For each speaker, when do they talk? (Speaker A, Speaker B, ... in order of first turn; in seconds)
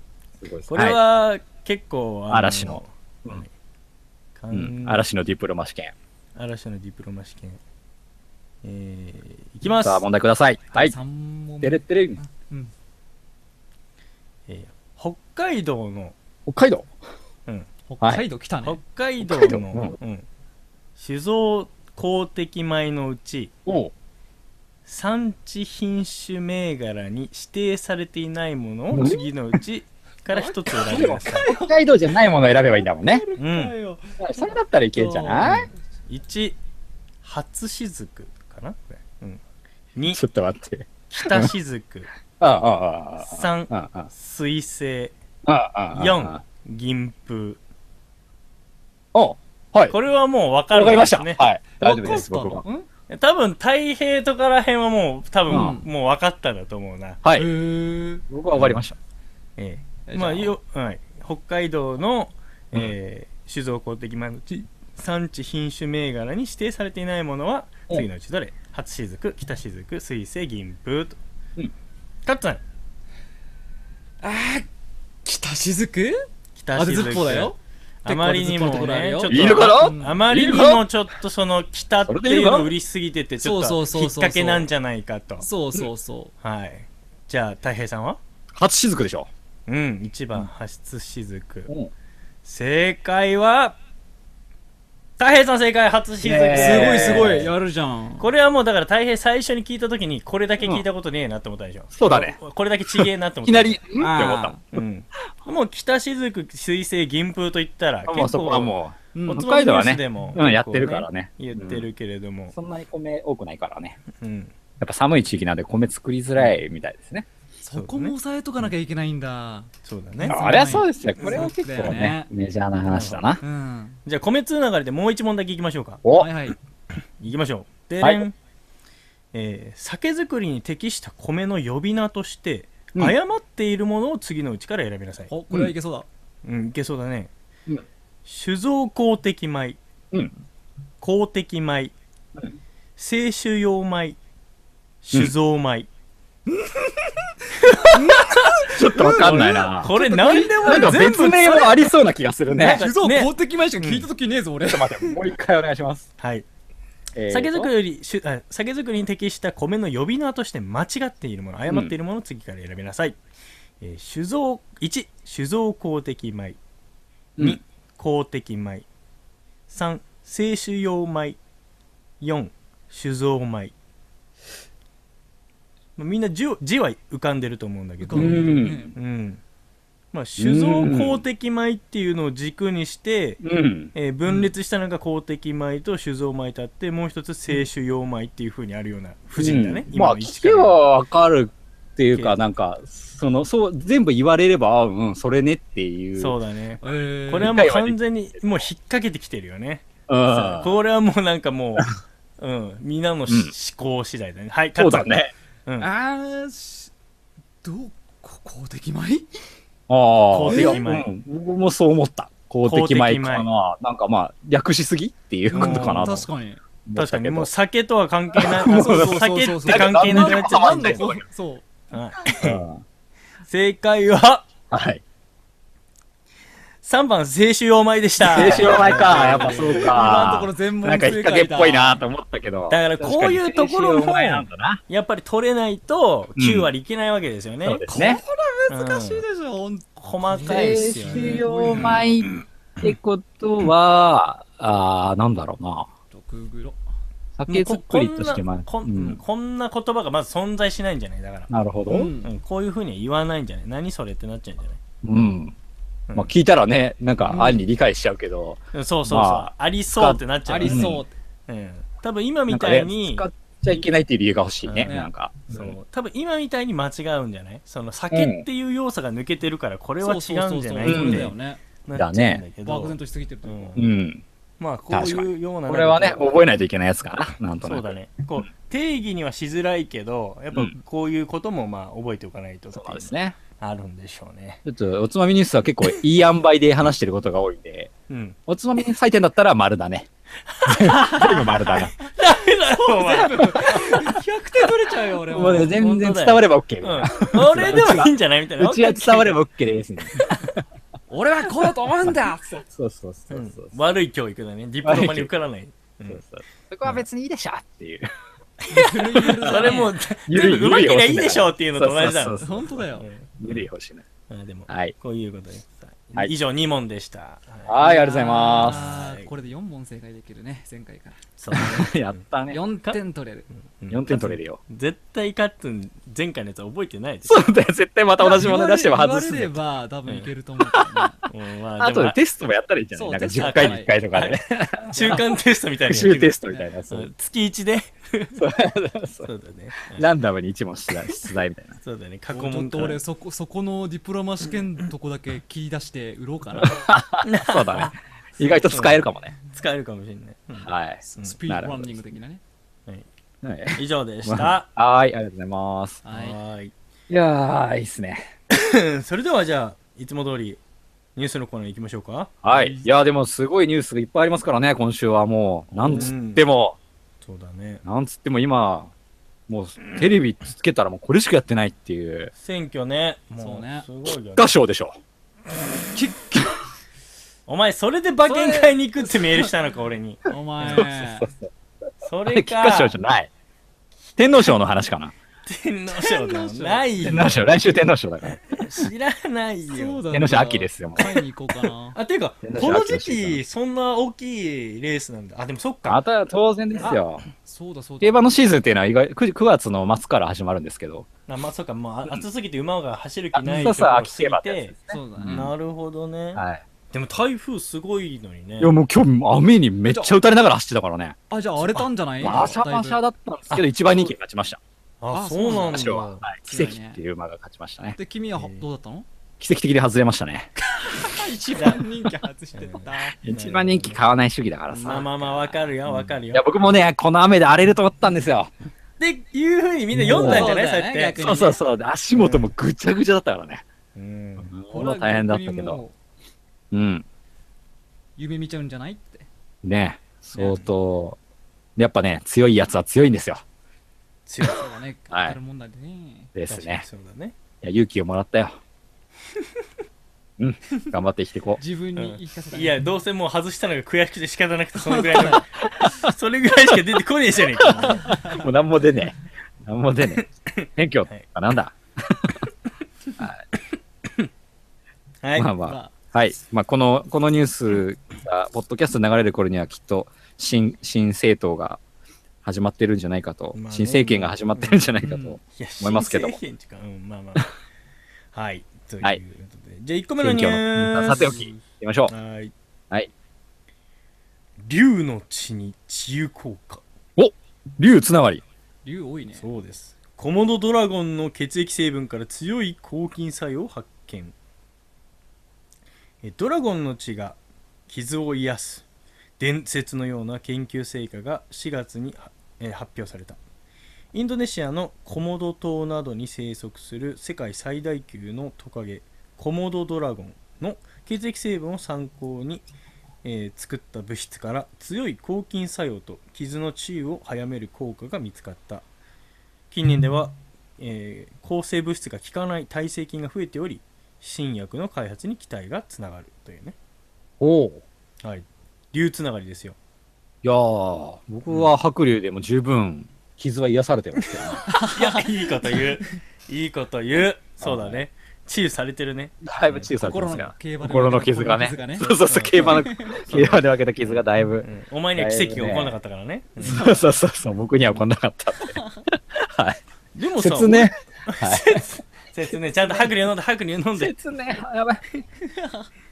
Speaker A: 0.4-1.0, 2.3-3.4, 4.5-5.9, 9.6-10.9, 11.6-12.2, 16.4-16.9, 19.2-19.9, 23.6-23.9, 28.9-29.2, 30.7-33.2, 34.2-35.7, 40.1-41.5, 42.4-44.1, 45.4-46.4, 49.1-49.9, 50.7-52.6, 57.2-57.5, 58.3-59.0, 79.3-80.8, 82.1-82.7, 88.5-89.3, 96.2-97.5, 101.9-102.4, 102.9-104.8, 108.0-111.9, 112.5-114.0, 114.8-117.3, 120.3-123.4, 126.0-126.3, 148.7-149.9, 150.6-152.8, 154.7-156.1, 157.1-157.7, 161.7-161.9, 178.1-178.9, 180.4-181.2, 183.4-183.9, 189.4-196.3, 197.3-198.6, 200.1-200.7, 203.3-203.5, 204.8-205.3, 209.9-216.2, 216.8-217.5, 218.3-221.2, 222.4-222.8, 224.7-225.0, 228.2-234.8, 236.4-236.7, 237.6-238.2, 240.4-245.9, 247.4-249.2, 251.5-252.1, 255.0-255.5, 256.1-261.0, 262.5-265.8, 268.1-268.4, 270.8-271.3, 271.9-272.4, 273.8-274.2, 274.9-277.9, 282.7-283.4, 284.6-287.9, 288.5-290.1, 290.6-291.9, 295.3-300.6, 302.7-303.7, 304.8-305.3, 306.1-308.1, 309.3-309.8, 310.3-312.7, 313.4-314.0, 314.7-314.9, 317.6-318.8, 321.5-322.6, 323.9-324.6, 327.2-329.6, 330.7-331.0, 331.8-335.2, 335.9-337.1, 338.4-339.3, 339.9-341.8, 346.6-349.3, 350.6-352.0, 353.4-356.0, 357.1-358.3, 362.4-366.8, 367.8-368.9, 369.5-372.3, 374.4-374.9, 380.6-381.5, 382.3-383.3, 384.2-385.1, 387.0-388.4, 390.1-391.1, 392.4-393.4, 395.9-397.2, 398.0-401.1, 403.3-405.5, 406.3-406.6, 408.6-411.1, 412.2-414.6, 415.5-418.0, 419.4-420.5, 423.2-425.3, 426.3-428.5, 429.9-430.5, 431.2-433.6, 434.4-435.8, 436.7-437.0, 439.6-441.2, 441.8-443.4, 445.1-445.4, 446.3-446.8, 447.6-448.6, 450.4-451.6, 457.6-462.4, 463.2-463.4, 465.4-471.8, 472.4-476.4, 480.2-482.1, 487.1-488.4, 527.4-527.8, 530.4-534.6, 537.6-538.0, 539.4-546.0, 546.6-549.8, 550.4-551.8, 554.0-555.0
Speaker B: 0.7-3.5, 4.3-5.0, 6.3-7.6, 8.6-10.0, 14.5-16.1, 18.6-20.2, 21.0-23.5, 24.9-31.5, 33.4-33.7, 36.1-36.6, 37.2-39.4, 39.9-40.2, 41.1-42.1, 43.2-45.1, 45.9-47.6, 49.9-51.4, 53.1-57.2, 59.6-71.2, 72.2-72.6, 76.5-85.5, 86.4-88.2, 89.7-91.7, 92.4-93.8, 95.2-97.5, 98.2-103.8, 104.7-108.7, 109.2-112.5, 114.1-114.5, 117.7-118.7, 119.8-120.4, 121.2-121.5, 122.9-123.2, 124.0-126.0, 127.2-128.3, 129.3-135.3, 136.4-137.3, 138.2-139.8, 141.0-141.9, 143.0-144.2, 145.0-145.9, 147.7-148.8, 149.7-151.7, 152.6-154.1, 156.2-156.5, 157.3-163.2, 163.8-166.6, 167.4-168.9, 169.7-171.4, 172.2-173.7, 176.0-179.4, 180.1-183.4, 183.9-190.8, 196.2-205.1, 210.3-211.1, 212.6-213.5, 215.5-216.3, 216.9-221.0, 221.9-222.6, 223.4-224.5, 226.8-230.3, 232.7-237.8, 238.7-239.2, 240.0-242.0, 247.5-251.5, 252.2-254.8, 258.7-260.9, 261.5-263.2, 264.6-264.9, 265.5-273.8, 274.6-276.3, 277.6-284.6, 288.1-288.4, 290.5-294.2, 295.4-299.4, 303.3-306.2, 308.6-313.3, 314.3-317.8, 318.6-319.3, 321.4-322.2, 323.5-327.5, 331.3-332.2, 333.4-338.4, 339.2-340.1, 341.8-343.0, 347.2-347.9, 348.5-351.4, 353.7-354.7, 356.1-356.7, 358.5-360.6, 361.1-362.7, 365.7-366.4, 367.2-367.8, 372.4-374.5, 377.5-380.9, 382.0-382.9, 385.4-387.6, 388.2-390.0, 391.9-396.0, 401.3-404.7, 405.3-408.7, 411.6-412.5, 415.0-416.2, 418.4-418.6, 421.5-421.9, 422.5-424.0, 424.7-426.4, 429.0-431.5, 432.1-432.5, 433.9-434.5, 444.3-444.7, 446.5-447.4, 451.9-458.1, 460.1-461.2, 465.2-465.5, 473.5-474.9, 475.5-477.5, 478.3-482.5, 484.6-486.8, 489.3-494.3, 496.2-498.8, 499.4-503.4, 504.1-512.6, 513.2-518.8, 519.7-526.8, 528.2-529.8, 531.5-531.7, 534.3-539.9, 542.0-546.9, 550.1-554.1
Speaker C: 10.7-12.7, 17.9-18.8, 30.3-31.7, 32.8-35.7, 51.8-52.9, 55.5-55.9, 57.3-58.2, 60.1-60.5, 74.2-74.7, 75.2-76.2, 76.7-80.2, 83.4-84.7, 85.4-86.3, 96.5-98.3, 104.0-104.6, 117.6-122.3, 123.4-124.0, 126.2-126.6, 135.3-136.1, 148.6-151.7, 152.7-155.2, 178.0-178.9, 196.8-197.6, 205.8-206.9, 207.6-209.3, 210.5-210.8, 215.5-216.6, 218.7-221.7, 228.3-232.0, 237.9-242.2, 246.1-246.8, 251.9-252.3, 257.3-257.6, 260.4-261.1, 264.8-265.1, 270.0-271.6, 272.6-273.8, 291.1-291.4, 292.8-295.7, 301.1-302.6, 308.7-309.9, 312.4-313.1, 317.8-321.2, 322.5-323.5, 328.2-331.3, 332.9-333.9, 334.9-335.2, 342.3-346.8, 351.1-352.4, 356.0-356.4, 373.4-373.9, 375.9-376.5, 378.2-379.5, 380.3-381.3, 385.9-387.3, 389.7-392.0, 396.8-398.3, 404.9-405.5, 409.9-410.1, 411.3-413.0, 415.1-417.0, 418.0-419.1, 420.7-423.2, 430.0-431.6, 434.7-435.9, 438.2-439.3, 444.4-446.3, 451.6-452.8, 454.8-455.4, 457.9-458.4, 465.6-465.9, 475.0-475.4, 488.8-489.4, 534.7-535.3, 540.0-543.2, 555.5-555.9